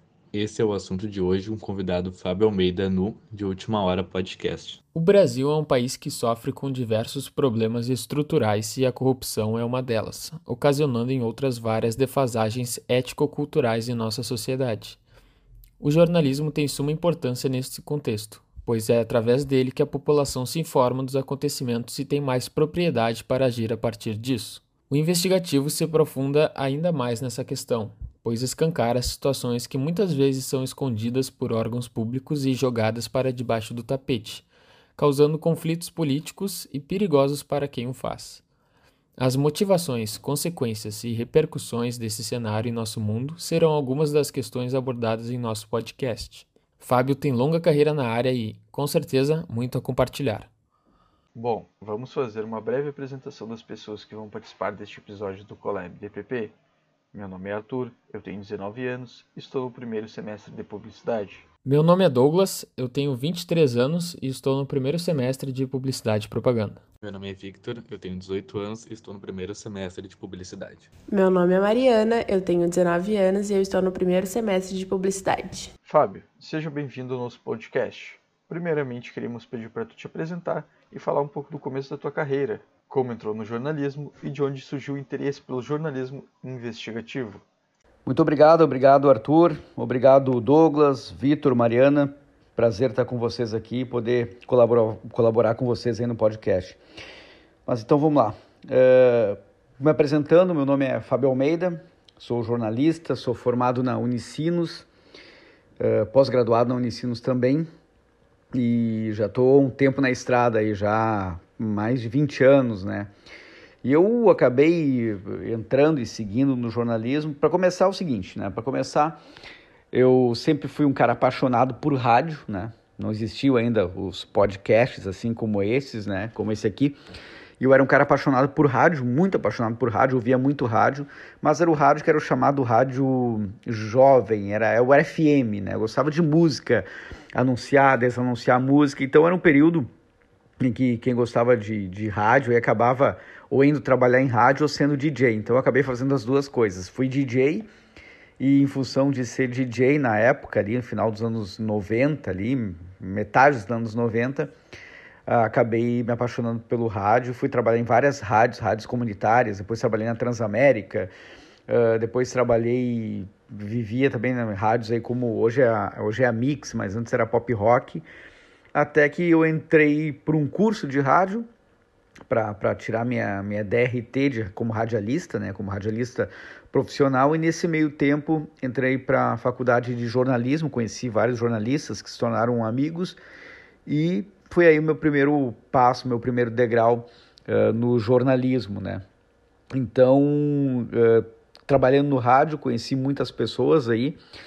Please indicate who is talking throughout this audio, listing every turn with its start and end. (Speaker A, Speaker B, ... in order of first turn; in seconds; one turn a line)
Speaker A: 0.3-4.8
Speaker B: 4.9-15.0
Speaker B: 15.8-34.5
Speaker B: 35.0-38.4
Speaker B: 39.2-50.5
Speaker C: 51.4-56.5
Speaker C: 57.1-61.5
Speaker B: 61.6-66.8
Speaker A: 67.0-70.9
Speaker D: 71.1-75.7
Speaker C: 75.8-87.4
Speaker E: 88.0-96.8
Speaker E: 97.7-104.9
Speaker E: 105.8-107.7
Speaker E: 108.5-113.1
Speaker E: 113.8-119.2
Speaker E: 119.9-127.0
Speaker E: 127.6-139.9
Speaker E: 140.6-147.7
Speaker E: 148.4-154.5
Speaker E: 155.3-161.1
Speaker E: 161.7-168.1
Speaker E: 168.7-171.5
Speaker E: 172.3-183.2
Speaker E: 183.9-189.0
Speaker E: 189.7-194.2